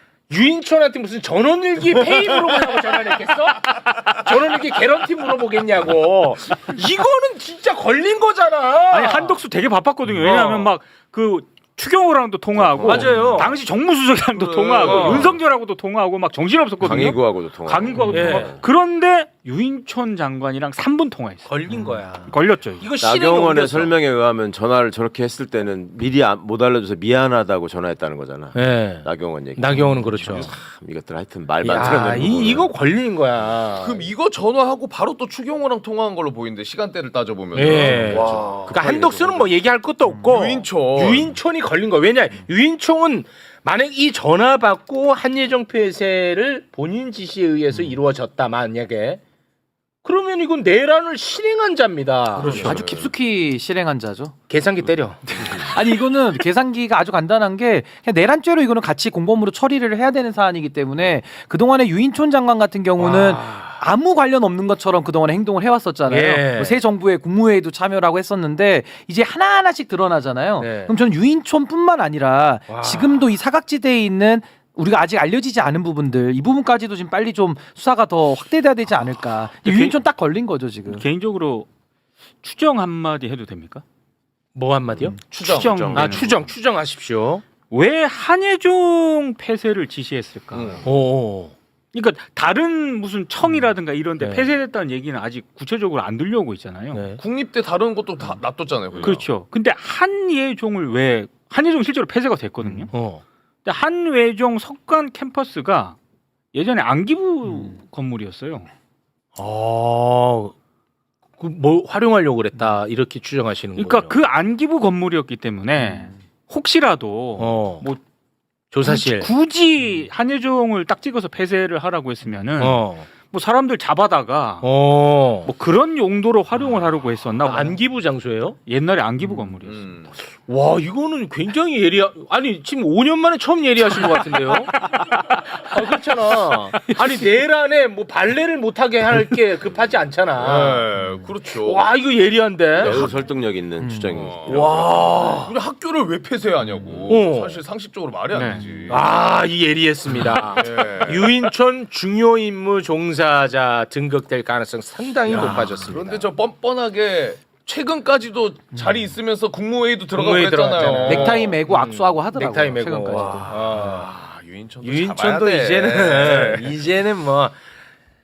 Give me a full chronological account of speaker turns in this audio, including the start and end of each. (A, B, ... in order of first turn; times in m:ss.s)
0:00.3-0:09.4 A
0:08.9-0:21.7 B
0:10.1-0:10.7 A
0:12.8-0:13.6 A
0:14.4-0:15.4 C
0:14.8-0:15.3 A
0:16.8-0:18.6 D
0:18.1-0:18.6 A
0:21.5-0:24.0 A
0:22.2-0:22.9 B
0:23.0-0:32.7 D
0:28.5-0:30.5 A
0:31.6-0:34.1 A
0:33.7-0:39.6 C
0:37.5-0:49.2 A
0:37.9-0:38.2 E
0:40.2-0:41.3 C
0:50.0-0:52.7 A
0:52.4-0:53.1 C
0:52.4-0:54.4 E
0:54.5-0:55.2 A
0:55.4-1:21.0 E
1:03.0-1:03.8 A
1:06.1-1:06.8 A
1:10.6-1:11.0 A
1:12.7-1:13.2 A
1:19.6-1:20.0 B
1:20.8-1:21.7 B
1:22.4-1:23.8 B
1:24.6-1:25.2 A
1:25.2-1:26.4 B
1:25.4-1:25.8 C
1:25.8-1:26.2 D
1:25.9-1:27.4 A
1:27.7-1:30.9 B
1:30.5-1:30.9 C
1:30.8-1:31.6 A
1:31.9-1:37.2 B
1:34.2-1:34.5 A
1:36.9-1:37.2 A
1:37.2-1:39.3 C
1:39.0-1:42.9 B
1:42.9-1:43.2 A
1:43.6-1:46.0 B
1:46.5-1:48.7 B
1:49.4-1:50.6 A
1:51.4-1:54.2 A
1:53.8-1:58.0 B
1:57.4-1:57.9 A
1:58.7-1:59.3 A
1:58.8-2:04.7 B
2:02.6-2:03.1 A
2:04.6-2:05.5 A
2:05.4-2:07.8 B
2:07.4-2:08.6 A
2:08.7-2:09.9 B
2:09.6-2:10.1 C
2:10.3-2:14.8 A
2:15.5-2:20.9 A
2:20.4-2:21.9 C
2:21.6-2:23.1 A
2:22.8-2:23.0 C
2:22.8-2:24.9 D
2:23.8-2:24.3 E
2:24.1-2:29.1 C
2:24.6-2:25.5 A
2:27.1-2:27.6 A
2:28.3-2:28.6 B
2:28.9-2:36.3 A
2:30.5-2:31.5 C
2:35.3-2:41.6 C
2:40.1-2:44.1 A
2:41.0-2:43.7 E
2:43.2-2:46.8 C
2:44.8-2:47.6 A